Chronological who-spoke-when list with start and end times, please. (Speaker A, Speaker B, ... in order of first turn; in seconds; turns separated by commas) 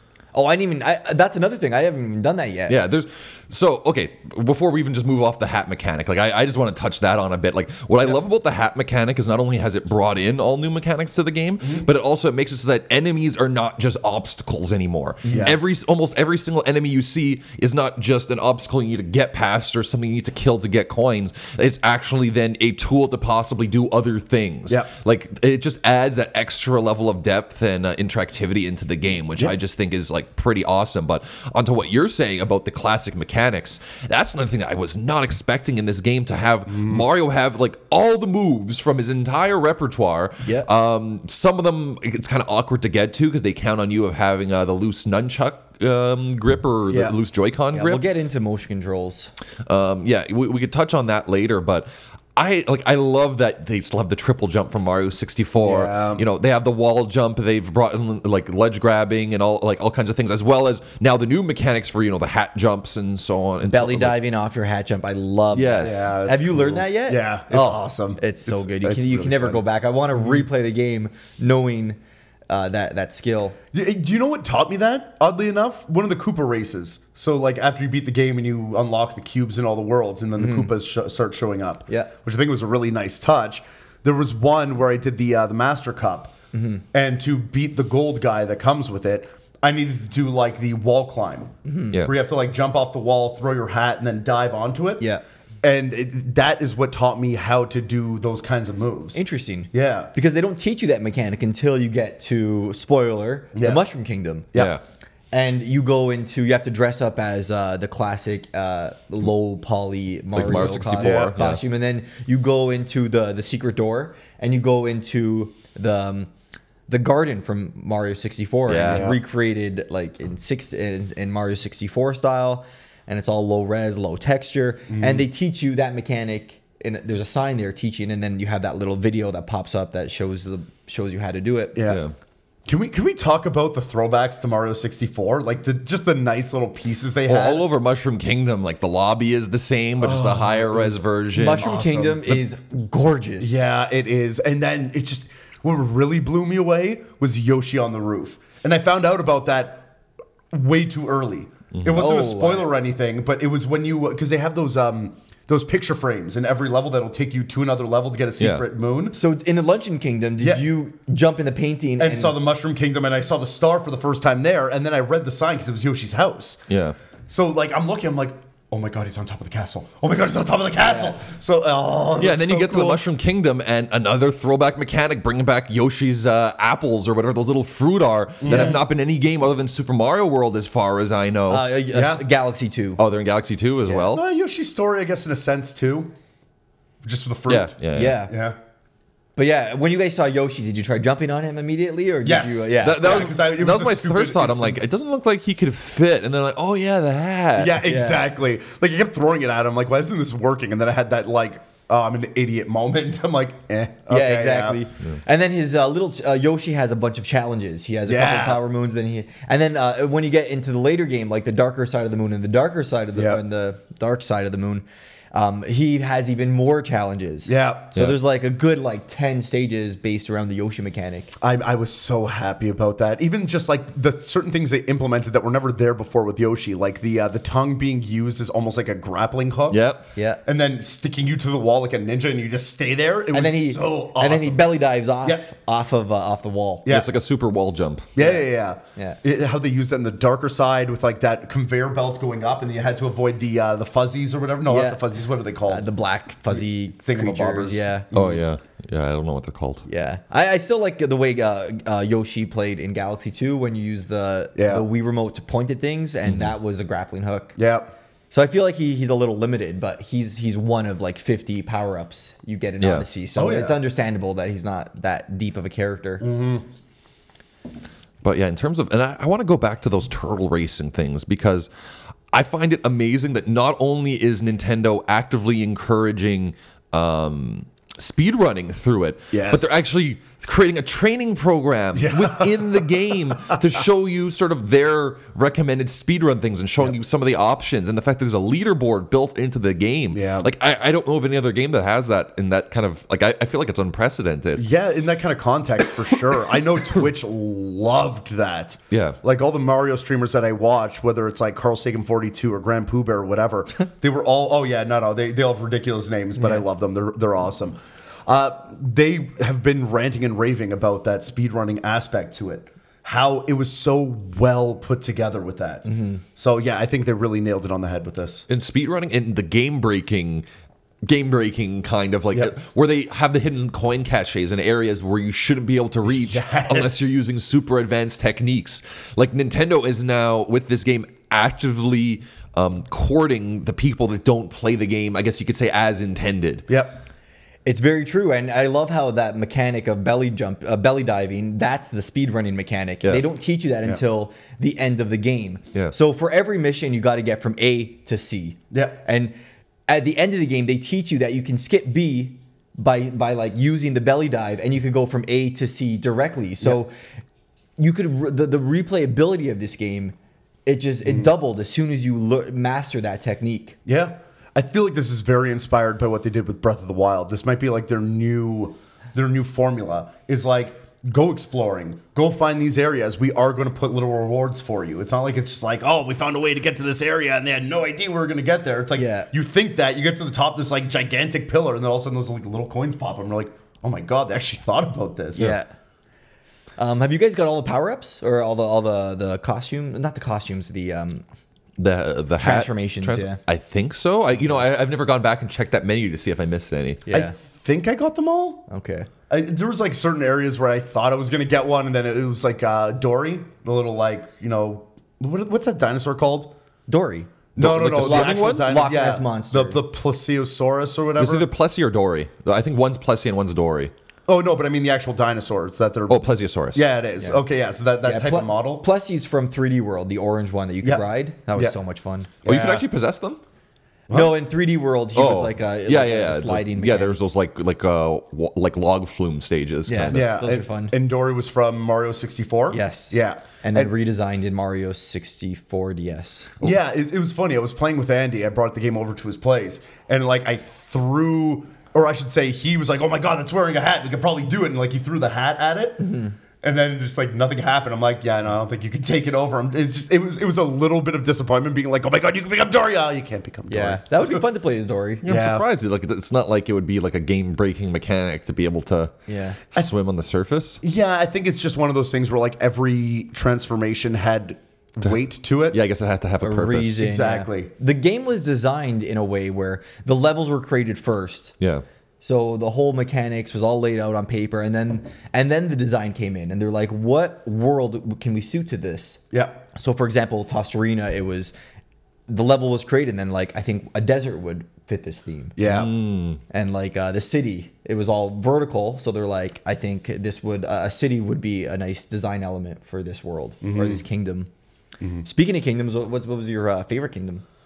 Speaker A: 0.3-2.8, Speaker B: 2.7-48.0, Speaker C: 15.3-15.6, Speaker C: 36.7-37.0, Speaker A: 40.4-40.7, Speaker C: 46.9-47.2, Speaker A: 47.7-49.3, Speaker B: 49.7-64.2, Speaker C: 55.6-56.2, Speaker A: 63.7-72.0, Speaker B: 65.5-66.1, Speaker C: 65.8-69.6, Speaker C: 70.2-70.5, Speaker A: 72.5-73.6, Speaker C: 73.7-86.3, Speaker A: 80.4-80.7, Speaker A: 86.5-86.8, Speaker C: 86.9-95.1, Speaker A: 91.7-92.0, Speaker C: 95.6-99.2, Speaker A: 99.2-104.5, Speaker C: 99.7-100.1, Speaker C: 103.5-103.8, Speaker B: 104.5-104.8, Speaker A: 105.3-116.3, Speaker B: 110.3-111.6, Speaker C: 110.5-111.3, Speaker A: 116.9-131.8, Speaker B: 118.7-119.1, Speaker C: 118.8-119.2, Speaker C: 124.9-125.3, Speaker C: 131.8-132.0, Speaker B: 131.9-132.1, Speaker C: 132.7-137.7, Speaker B: 137.3-141.7, Speaker C: 140.0-142.3, Speaker A: 141.4-143.6, Speaker C: 143.4-149.9, Speaker C: 150.5-159.2, Speaker B: 151.8-152.1, Speaker A: 151.9-152.7, Speaker B: 158.4-158.6, Speaker A: 159.1-162.4, Speaker C: 160.4-160.7, Speaker C: 162.0-166.6, Speaker B: 166.7-166.9, Speaker C: 167.3-173.0, Speaker A: 170.8-171.2, Speaker B: 172.2-181.7, Speaker C: 178.4-178.8, Speaker A: 178.5-178.8, Speaker A: 181.5-183.0, Speaker C: 181.9-182.2, Speaker B: 183.0-184.2, Speaker C: 184.1-186.1, Speaker C: 187.0-188.6, Speaker B: 187.5-188.2, Speaker A: 187.9-188.3, Speaker A: 189.4-193.3, Speaker C: 192.2-194.8, Speaker B: 192.8-197.8, Speaker C: 197.6-204.8, Speaker A: 197.8-198.3, Speaker A: 204.1-221.3, Speaker C: 208.1-208.6, Speaker C: 213.2-213.4, Speaker C: 217.5-217.9, Speaker C: 221.4-229.8, Speaker B: 229.7-230.1, Speaker A: 230.2-230.4, Speaker C: 230.4-234.7, Speaker A: 233.3-236.9, Speaker C: 236.8-237.1, Speaker B: 236.9-238.1, Speaker C: 238.2-245.9, Speaker A: 238.2-238.4, Speaker A: 244.7-245.0, Speaker A: 245.7-248.1, Speaker C: 246.5-248.4, Speaker B: 248.1-249.9, Speaker A: 249.9-257.6, Speaker C: 254.6-254.9, Speaker B: 256.3-256.5, Speaker C: 257.6-257.9, Speaker A: 258.3-266.3, Speaker B: 262.8-263.1, Speaker C: 263.4-263.8, Speaker C: 266.2-266.6, Speaker B: 268.2-271.7, Speaker B: 272.3-294.7, Speaker C: 279.3-279.8, Speaker C: 281.9-282.9, Speaker C: 290.1-290.5, Speaker C: 294.6-318.4, Speaker B: 298.9-299.2, Speaker A: 315.9-316.2, Speaker B: 318.5-320.4, Speaker B: 321.1-336.6, Speaker C: 326.1-327.2, Speaker C: 336.7-337.0, Speaker A: 337.7-349.3, Speaker C: 348.7-349.0, Speaker A: 349.9-356.9, Speaker A: 357.8-360.1, Speaker A: 360.7-363.8, Speaker C: 361.1-361.3, Speaker C: 363.9-385.6, Speaker A: 379.0-379.3, Speaker A: 385.4-385.7, Speaker A: 386.8-391.2, Speaker B: 391.8-397.0, Speaker A: 392.4-393.4, Speaker A: 397.1-397.4, Speaker C: 397.1-398.6, Speaker A: 398.7-399.1, Speaker C: 399.3-406.6, Speaker A: 406.9-407.3, Speaker C: 407.6-411.5, Speaker B: 407.6-408.8, Speaker A: 407.9-409.8, Speaker B: 411.2-413.9, Speaker C: 414.3-418.9, Speaker B: 416.1-416.9, Speaker A: 418.0-422.3, Speaker C: 420.8-421.8, Speaker C: 422.4-422.9, Speaker B: 422.4-423.4, Speaker C: 424.1-424.4, Speaker A: 424.1-427.2, Speaker B: 425.1-430.3, Speaker A: 429.9-430.9, Speaker C: 430.1-433.9, Speaker A: 432.7-436.7, Speaker C: 436.6-446.1, Speaker A: 446.0-446.4, Speaker C: 446.6-454.4, Speaker A: 453.7-455.3, Speaker B: 455.2-460.8, Speaker C: 455.2-455.6, Speaker A: 459.3-459.6, Speaker C: 460.8-465.8, Speaker B: 465.7-467.1, Speaker A: 466.4-471.6, Speaker C: 467.0-467.7, Speaker A: 472.2-479.2, Speaker A: 479.7-481.5, Speaker A: 482.3-485.6, Speaker C: 485.6-485.9, Speaker B: 485.6-486.4, Speaker A: 486.5-494.5, Speaker C: 493.6-494.0, Speaker A: 495.2-497.4